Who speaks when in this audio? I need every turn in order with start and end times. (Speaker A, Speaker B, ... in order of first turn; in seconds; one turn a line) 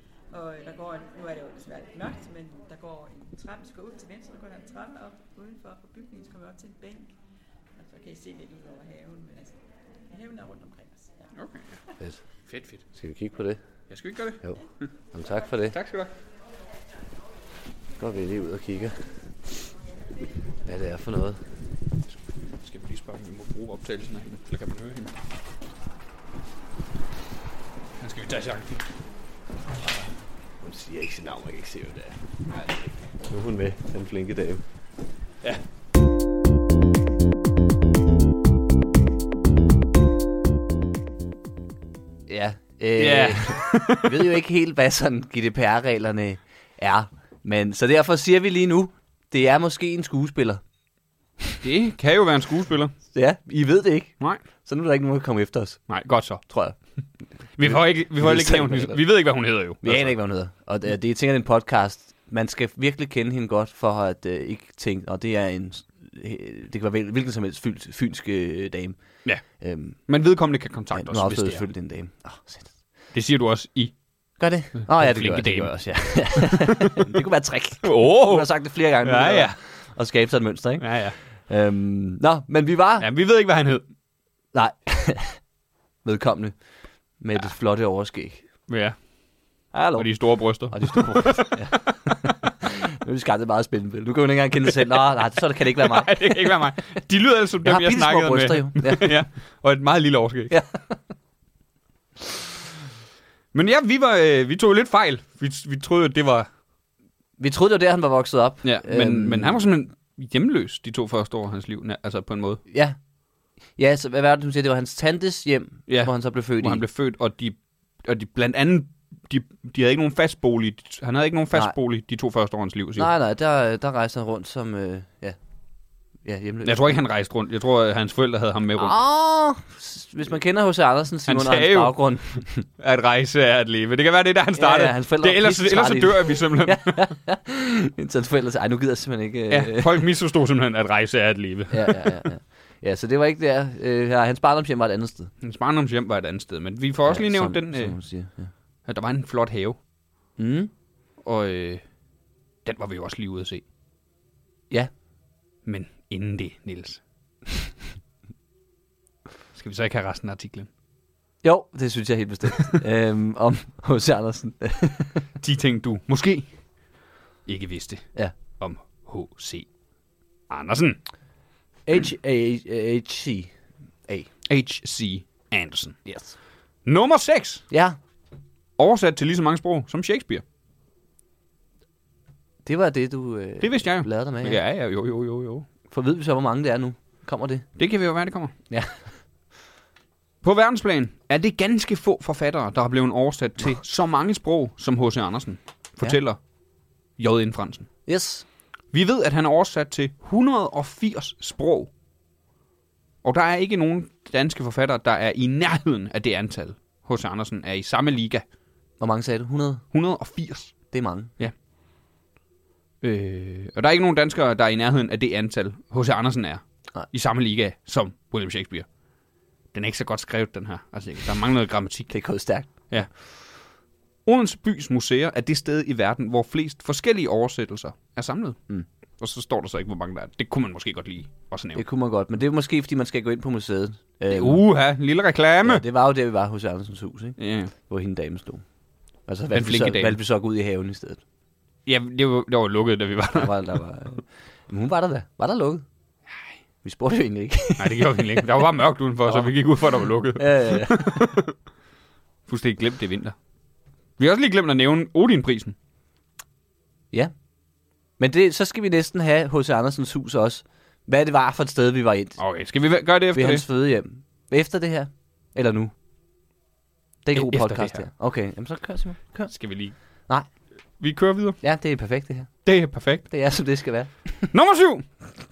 Speaker A: 0.3-7.1
Speaker A: 7.7-11.3
Speaker B: 11.3-11.8
Speaker B: 12.4-12.8
Speaker C: 12.9-13.6
Speaker B: 13.9-14.4
Speaker C: 15.1-15.8
Speaker B: 15.7-16.1
Speaker C: 18.0-19.1
Speaker C: 20.6-21.4
Speaker B: 22.1-25.2
Speaker B: 28.0-28.9
Speaker C: 30.6-32.2
Speaker B: 32.5-32.8
Speaker C: 33.2-34.6
Speaker C: 42.3-50.6
Speaker B: 43.0-44.4
Speaker B: 51.6-52.9
Speaker C: 53.1-55.9
Speaker B: 55.9-56.4
Speaker C: 56.5-56.8
Speaker B: 57.6-60.1
Speaker C: 57.6-59.0
Speaker C: 59.8-70.0
Speaker B: 70.0-71.7
Speaker C: 70.9-72.8
Speaker B: 73.1-74.0
Speaker C: 74.4-83.1
Speaker B: 74.8-77.0
Speaker B: 77.8-78.5
Speaker B: 79.0-79.5
Speaker B: 80.8-81.2
Speaker B: 83.0-83.8
Speaker C: 84.5-85.4
Speaker C: 86.0-86.6
Speaker C: 87.2-88.5
Speaker B: 88.7-89.0
Speaker C: 89.7-96.6
Speaker B: 90.0-91.7
Speaker B: 95.7-100.5
Speaker C: 97.6-99.1
Speaker C: 100.5-100.9
Speaker B: 103.5-106.5
Speaker C: 107.4-109.6
Speaker B: 108.6-112.6
Speaker C: 112.7-113.0
Speaker C: 113.7-116.8
Speaker B: 115.9-123.1
Speaker C: 123.0-125.3
Speaker C: 126.2-126.9
Speaker B: 126.6-128.9
Speaker C: 128.8-132.7
Speaker B: 131.3-132.0
Speaker B: 132.7-137.1
Speaker C: 134.6-140.0
Speaker B: 139.5-142.2
Speaker C: 141.7-145.3
Speaker B: 145.4-147.9
Speaker C: 147.1-148.5
Speaker B: 148.8-149.8
Speaker C: 150.4-150.7
Speaker B: 151.2-151.8
Speaker B: 152.6-153.6
Speaker B: 155.6-157.0
Speaker B: 159.5-160.7
Speaker C: 161.4-165.2
Speaker B: 165.4-166.5
Speaker B: 167.4-168.1
Speaker B: 168.6-169.7
Speaker B: 170.5-171.0
Speaker C: 171.8-173.5
Speaker B: 174.5-176.0
Speaker C: 176.1-176.3
Speaker B: 176.8-177.6
Speaker C: 177.7-178.0
Speaker B: 178.8-180.4
Speaker C: 182.6-184.6
Speaker B: 183.6-185.7
Speaker C: 185.9-187.7
Speaker B: 187.8-188.5
Speaker C: 188.7-189.1
Speaker B: 190.4-196.4
Speaker B: 197.2-197.9
Speaker C: 198.1-198.4
Speaker B: 198.9-201.9
Speaker B: 203.2-208.4
Speaker C: 209.0-209.8
Speaker B: 209.9-210.8
Speaker C: 210.9-211.3
Speaker B: 213.0-218.9
Speaker B: 219.7-222.1
Speaker C: 222.1-222.7
Speaker B: 222.9-223.3
Speaker B: 224.2-228.6
Speaker B: 229.2-231.8
Speaker C: 231.7-234.6
Speaker B: 234.3-235.8
Speaker C: 235.6-238.6
Speaker B: 237.4-237.7
Speaker C: 239.2-241.2
Speaker B: 239.5-240.2
Speaker B: 241.8-243.5
Speaker C: 243.3-245.8
Speaker C: 246.8-248.5
Speaker B: 247.8-251.5
Speaker C: 249.2-249.5
Speaker C: 250.3-251.2
Speaker B: 252.5-253.3
Speaker B: 254.2-255.8
Speaker C: 258.2-262.4
Speaker B: 262.4-263.6
Speaker C: 263.3-265.9
Speaker C: 267.2-269.5
Speaker B: 267.3-268.1
Speaker B: 269.5-269.9
Speaker B: 271.0-271.6
Speaker C: 271.6-272.5
Speaker B: 272.6-273.3
Speaker C: 273.3-274.5
Speaker B: 274.5-275.1